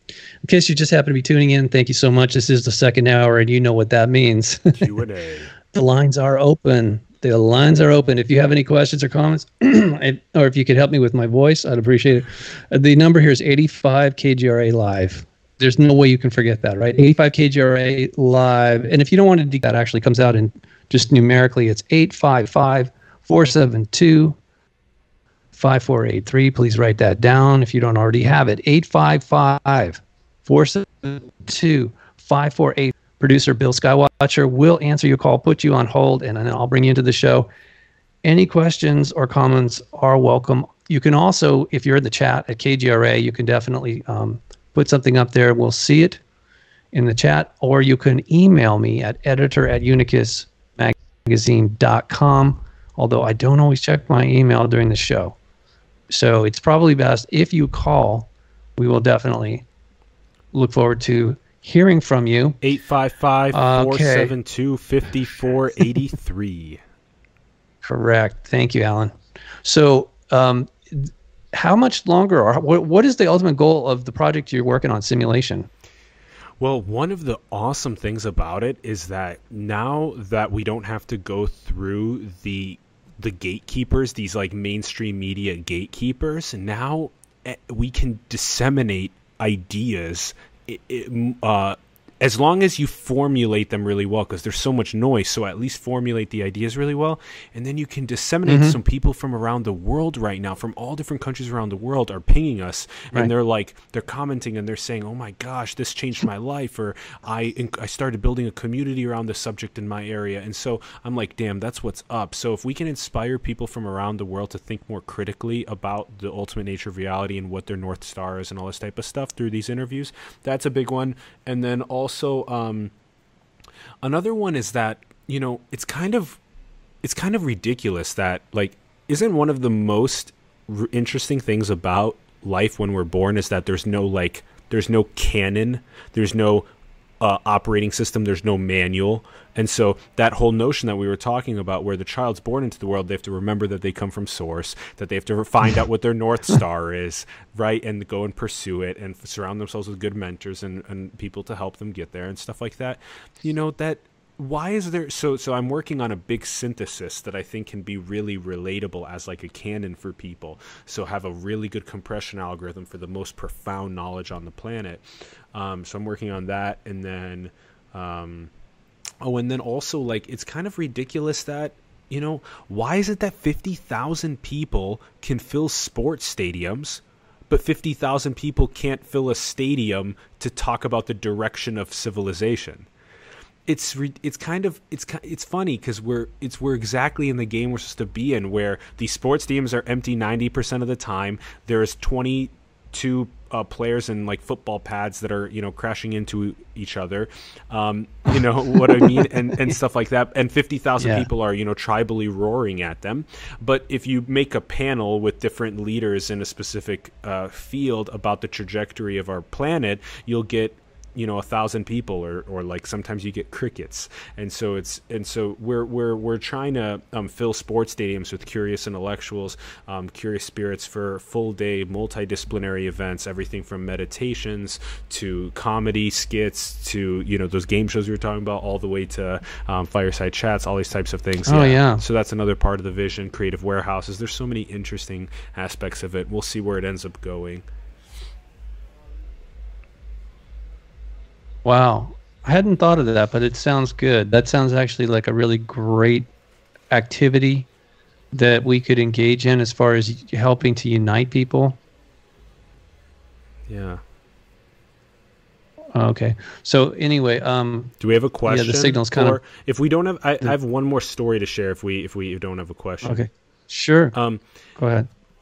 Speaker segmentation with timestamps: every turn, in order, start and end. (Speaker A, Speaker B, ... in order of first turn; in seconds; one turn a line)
Speaker A: 0.4-4.9
Speaker B: 4.7-5.5
Speaker A: 5.7-24.4
Speaker A: 25.5-37.5
Speaker A: 38.2-46.2
Speaker A: 46.9-55.4
Speaker A: 56.1-59.6
Speaker A: 60.5-62.6
Speaker B: 62.6-66.8
Speaker A: 63.5-64.3
Speaker A: 67.8-75.7
Speaker B: 76.6-122.9
Speaker A: 98.5-98.8
Speaker B: 124.0-126.4
Speaker B: 127.0-136.7
Speaker B: 137.2-168.5
Speaker B: 169.2-182.9
Speaker B: 183.7-237.7
Speaker A: 201.0-201.3
Speaker A: 231.5-232.0
Speaker A: 241.7-246.3
Speaker A: 246.9-247.7
Speaker A: 248.3-251.8
Speaker B: 253.7-254.0
Speaker A: 255.9-257.9
Speaker B: 258.0-263.2
Speaker A: 258.4-259.4
Speaker A: 263.0-264.1
Speaker B: 264.1-264.4
Speaker A: 264.8-265.1